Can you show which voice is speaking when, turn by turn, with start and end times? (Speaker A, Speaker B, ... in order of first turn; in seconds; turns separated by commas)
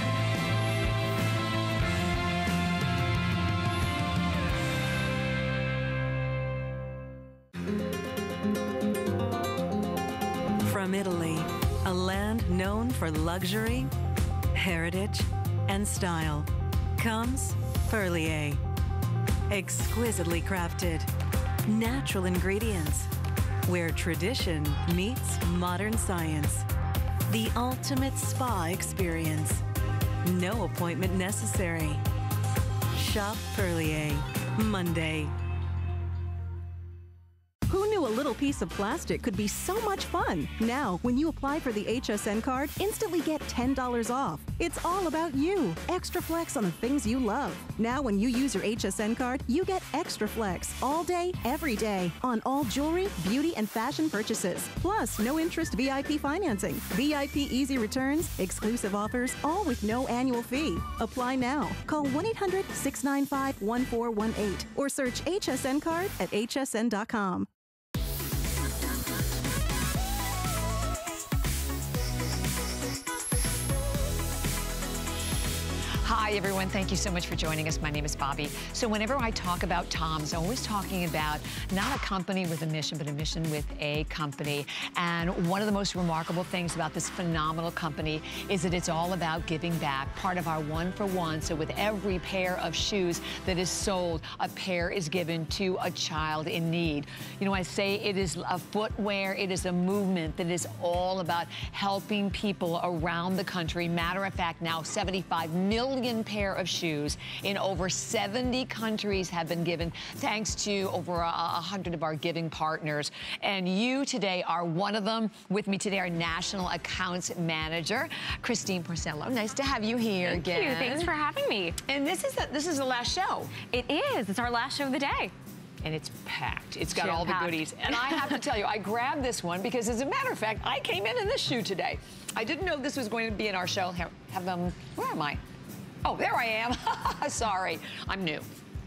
Speaker A: 10.6-13.9, Speaker A: 14.5-18.6, Speaker A: 19.5-21.1, Speaker A: 21.7-23.1, Speaker A: 23.6-26.6, Speaker A: 27.3-29.6, Speaker A: 30.2-32.0, Speaker A: 32.9-35.3, Speaker B: 37.7-67.5, Speaker C: 76.0-121.1, Speaker D: 120.2-121.8, Speaker C: 121.8-123.5, Speaker D: 123.7-125.3, Speaker C: 125.8-135.4, Speaker D: 126.9-128.4, Speaker C: 136.0-138.5